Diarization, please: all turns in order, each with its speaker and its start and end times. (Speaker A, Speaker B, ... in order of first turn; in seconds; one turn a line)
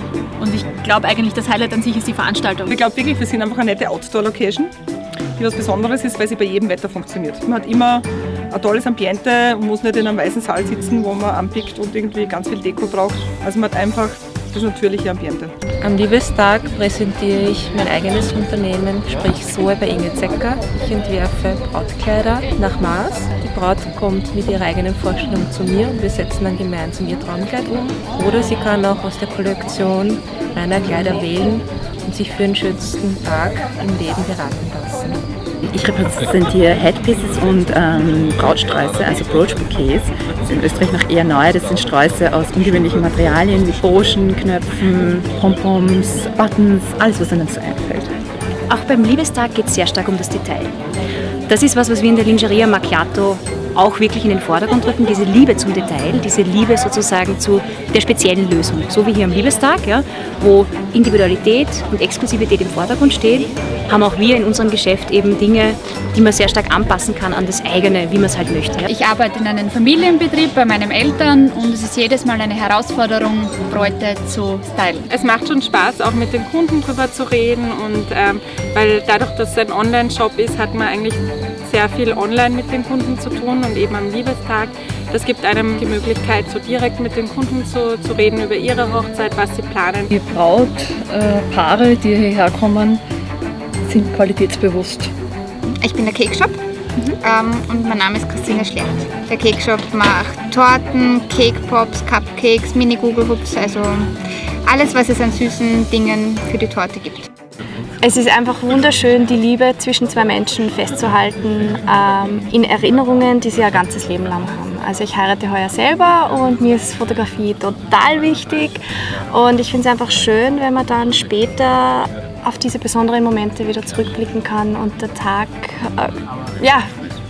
Speaker A: 0.4-2.7
Speaker B: 2.7-4.7
Speaker B: 5.4-15.5
Speaker C: 15.8-35.2
Speaker D: 35.7-48.1
Speaker E: 48.7-50.7
Speaker E: 51.5-68.9
Speaker F: 68.8-75.1
Speaker G: 75.1-90.1
Speaker H: 90.1-93.0
Speaker H: 93.8-95.1
Speaker I: 95.8-107.3
Speaker J: 108.0-118.8
Speaker J: 119.3-126.9